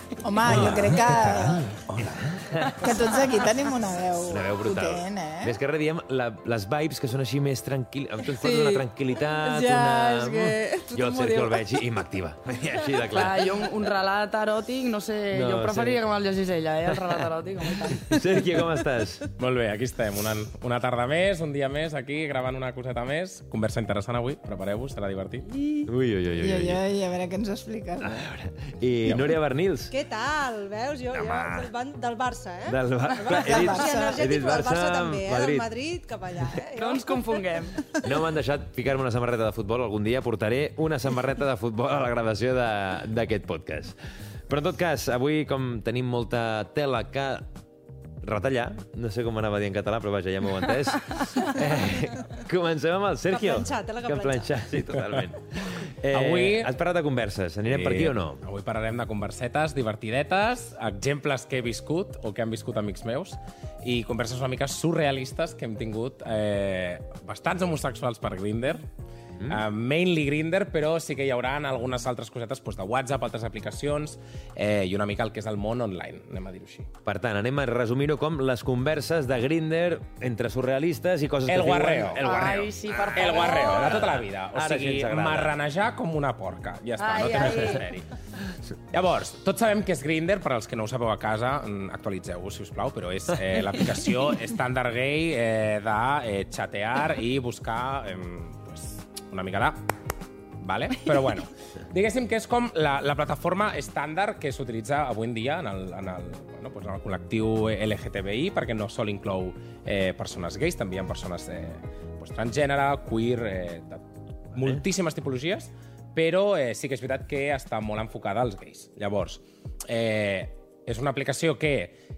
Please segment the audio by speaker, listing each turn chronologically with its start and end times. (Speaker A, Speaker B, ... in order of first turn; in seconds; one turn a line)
Speaker A: 0.2-1.7
Speaker B: 0.5-2.4
Speaker C: 0.5-2.9
Speaker A: 2.8-5.6
Speaker C: 4.3-13.6
Speaker A: 8.4-8.8
Speaker A: 9.4-11.7
Speaker D: 13.1-18.2
Speaker C: 15.3-16.0
Speaker C: 16.9-17.2
Speaker C: 17.8-19.3
Speaker B: 19.4-25.5
Speaker C: 25.9-26.8
Speaker A: 26.4-28.3
Speaker C: 28.0-29.9
Speaker E: 29.9-37.4
Speaker C: 31.1-31.7
Speaker C: 32.7-35.7
Speaker A: 33.3-34.2
Speaker D: 36.8-37.9
Speaker C: 38.0-44.0
Speaker C: 44.5-47.5
Speaker C: 48.2-58.4
Speaker E: 53.3-54.8
Speaker B: 56.1-56.7
Speaker B: 57.7-68.8
Speaker B: 69.5-76.9
Speaker C: 77.0-85.5
Speaker B: 81.5-82.5
Speaker D: 82.2-84.1
Speaker B: 83.2-88.1
Speaker D: 87.0-87.8
Speaker B: 88.9-99.8
Speaker B: 100.6-122.0